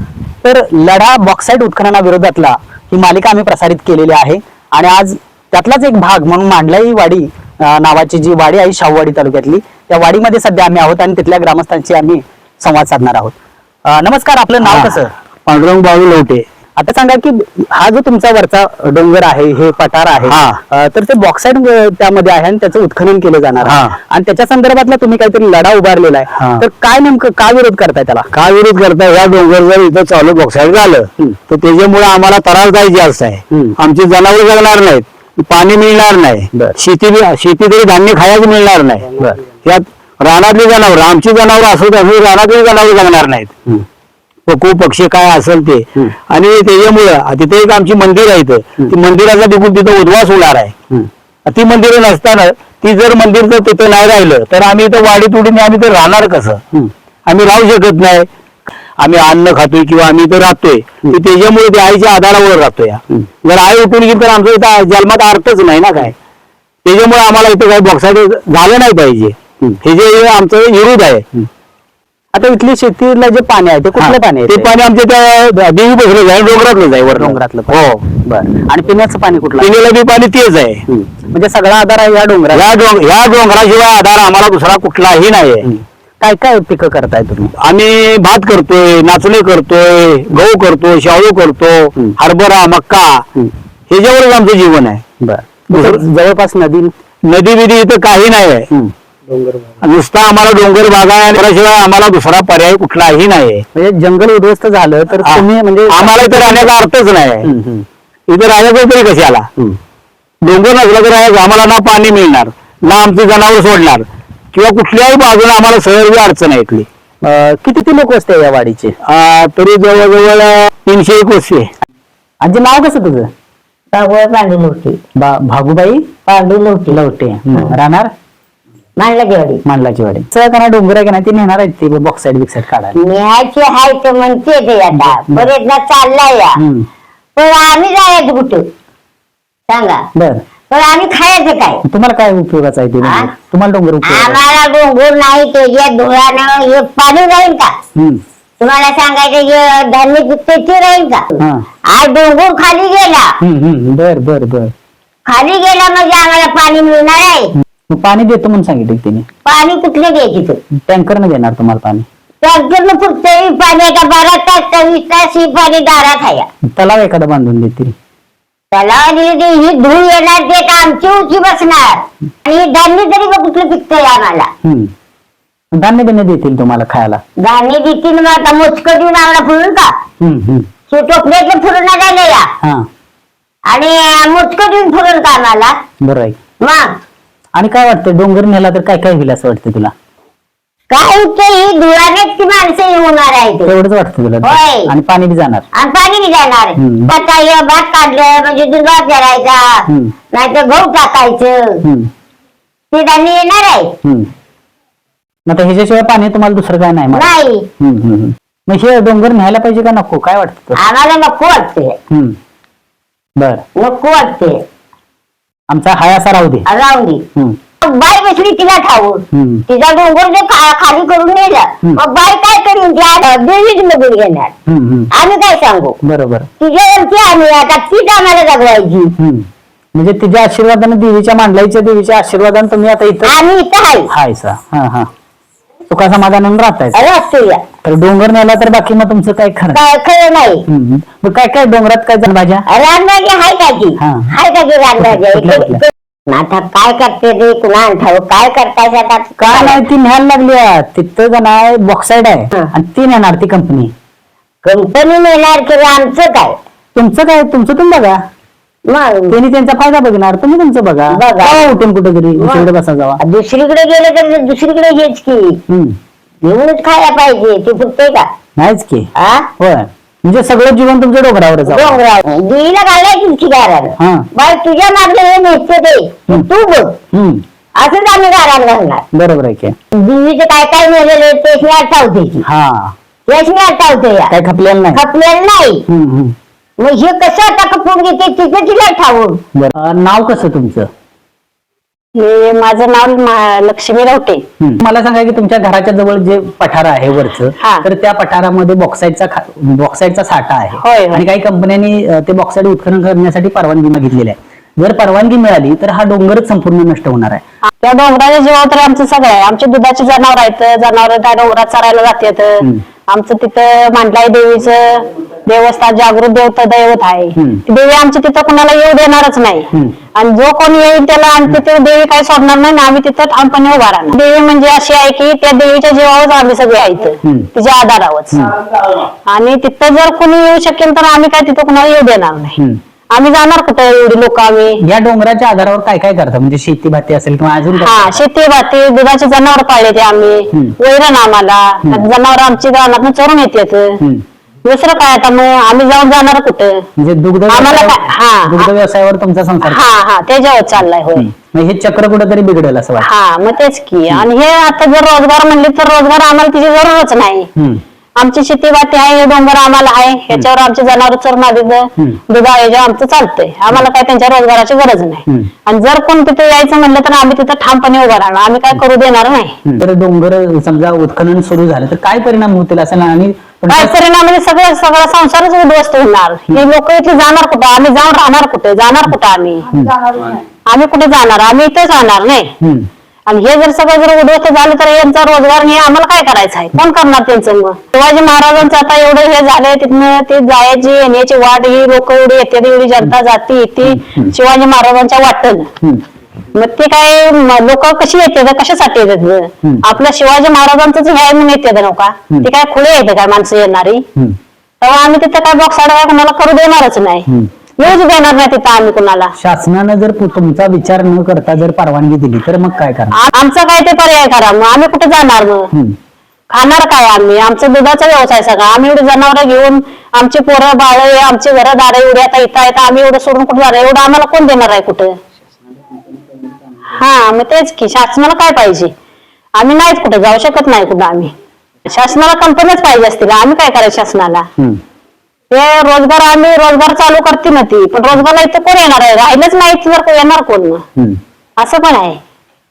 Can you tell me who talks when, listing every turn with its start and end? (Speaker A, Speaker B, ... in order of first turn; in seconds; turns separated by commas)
Speaker A: 0.4-13.3, Speaker A: 13.8-15.1, Speaker B: 14.6-16.4, Speaker A: 16.8-28.3, Speaker B: 20.3-20.6, Speaker B: 23.6-23.9, Speaker B: 28.3-43.5, Speaker A: 33.5-33.8, Speaker B: 44.5-50.7, Speaker B: 51.5-56.6, Speaker B: 57.2-58.3, Speaker B: 59.0-66.1, Speaker B: 66.8-71.3, Speaker A: 72.3-74.7, Speaker B: 74.0-78.0, Speaker A: 77.1-79.7, Speaker B: 79.6-80.8, Speaker A: 80.9-82.7, Speaker B: 82.5-85.7, Speaker A: 85.6-87.5, Speaker B: 87.6-93.3, Speaker B: 93.9-95.0, Speaker A: 95.2-96.9, Speaker B: 95.7-96.0, Speaker B: 97.2-98.7, Speaker A: 98.7-99.7, Speaker B: 99.8-103.6, Speaker A: 103.7-106.7, Speaker B: 105.2-107.5, Speaker A: 107.4-107.8, Speaker B: 108.3-109.5, Speaker B: 110.4-116.9, Speaker A: 117.2-119.0, Speaker B: 119.0-121.7, Speaker A: 122.4-123.3, Speaker C: 123.9-125.0, Speaker A: 125.2-126.1, Speaker C: 126.3-127.0, Speaker A: 126.9-128.1, Speaker C: 129.0-129.6, Speaker A: 129.6-133.0, Speaker C: 132.9-136.6, Speaker A: 135.0-135.5, Speaker A: 136.6-136.9, Speaker C: 137.3-138.6, Speaker C: 139.7-140.0, Speaker A: 140.2-140.4, Speaker C: 140.7-141.8, Speaker A: 141.8-144.4, Speaker C: 143.0-143.3, Speaker C: 144.0-147.7, Speaker A: 147.9-148.2, Speaker C: 148.6-151.3, Speaker A: 151.4-151.6, Speaker C: 151.9-153.3, Speaker A: 153.4-154.7, Speaker C: 155.3-157.5, Speaker A: 157.9-159.2, Speaker C: 159.4-160.6, Speaker A: 160.7-162.1, Speaker C: 162.4-166.5, Speaker A: 166.7-167.9, Speaker C: 168.7-174.5, Speaker A: 174.6-174.9, Speaker A: 175.7-177.2, Speaker C: 177.4-179.9, Speaker A: 180.2-180.7, Speaker C: 180.9-182.5, Speaker C: 183.7-185.7, Speaker A: 186.0-186.4, Speaker C: 186.6-186.9, Speaker A: 187.5-189.9, Speaker C: 190.9-193.7, Speaker A: 193.7-195.7, Speaker C: 194.4-194.9, Speaker C: 195.7-201.8, Speaker A: 196.8-197.1, Speaker A: 199.9-200.1, Speaker A: 201.8-202.1, Speaker C: 202.9-203.9, Speaker A: 204.0-204.3, Speaker A: 205.5-210.8, Speaker C: 207.1-207.7, Speaker C: 210.8-212.0, Speaker A: 212.1-212.3, Speaker A: 213.4-213.6, Speaker C: 213.8-214.6, Speaker A: 215.7-216.7, Speaker C: 216.7-217.2, Speaker C: 217.8-224.5, Speaker A: 219.3-219.6, Speaker A: 224.7-225.1, Speaker C: 225.1-225.9, Speaker A: 226.0-226.5, Speaker C: 226.6-229.1, Speaker A: 229.2-233.4, Speaker C: 233.2-234.1, Speaker A: 234.1-235.1, Speaker A: 235.9-237.0, Speaker C: 236.9-237.6, Speaker A: 237.8-239.8, Speaker C: 239.7-240.7, Speaker A: 240.7-242.7, Speaker C: 242.7-249.8, Speaker A: 244.0-244.3, Speaker A: 245.0-245.8, Speaker A: 249.4-253.9, Speaker C: 254.6-256.6, Speaker A: 256.9-258.2, Speaker C: 258.9-259.4, Speaker A: 259.3-263.2, Speaker C: 261.1-262.7, Speaker C: 263.2-265.6, Speaker A: 265.7-265.9, Speaker C: 266.4-268.3, Speaker A: 268.6-272.0, Speaker C: 269.1-269.5, Speaker C: 271.7-277.0, Speaker A: 274.0-274.3, Speaker A: 277.1-277.4, Speaker C: 277.8-279.0, Speaker A: 279.1-279.7, Speaker C: 279.9-282.4, Speaker A: 282.4-282.9, Speaker C: 283.3-284.3, Speaker A: 284.3-285.0, Speaker C: 284.9-285.8, Speaker A: 285.9-286.3, Speaker C: 286.8-289.4, Speaker A: 289.5-290.9, Speaker D: 292.1-294.4, Speaker A: 294.6-307.4, Speaker D: 297.6-297.8, Speaker D: 300.8-301.2, Speaker D: 307.7-328.5, Speaker A: 317.4-317.6, Speaker D: 329.2-332.6, Speaker D: 333.1-334.8, Speaker A: 334.8-338.2, Speaker D: 337.8-344.0, Speaker D: 344.6-346.9, Speaker A: 347.0-349.8, Speaker D: 347.5-348.7, Speaker D: 349.6-351.3, Speaker A: 351.1-353.1, Speaker D: 353.0-357.5, Speaker A: 357.6-357.8, Speaker D: 358.2-369.6, Speaker A: 369.6-373.9, Speaker D: 373.7-379.7, Speaker D: 380.3-382.5, Speaker A: 382.6-382.9, Speaker D: 383.3-395.7, Speaker A: 393.8-394.3, Speaker D: 396.5-404.0, Speaker D: 404.8-407.2, Speaker D: 407.8-409.3, Speaker A: 409.4-413.2, Speaker D: 413.2-415.7, Speaker D: 416.5-425.2, Speaker D: 426.9-428.9, Speaker D: 429.5-431.3, Speaker D: 431.8-434.5, Speaker D: 435.5-440.8, Speaker D: 441.6-442.2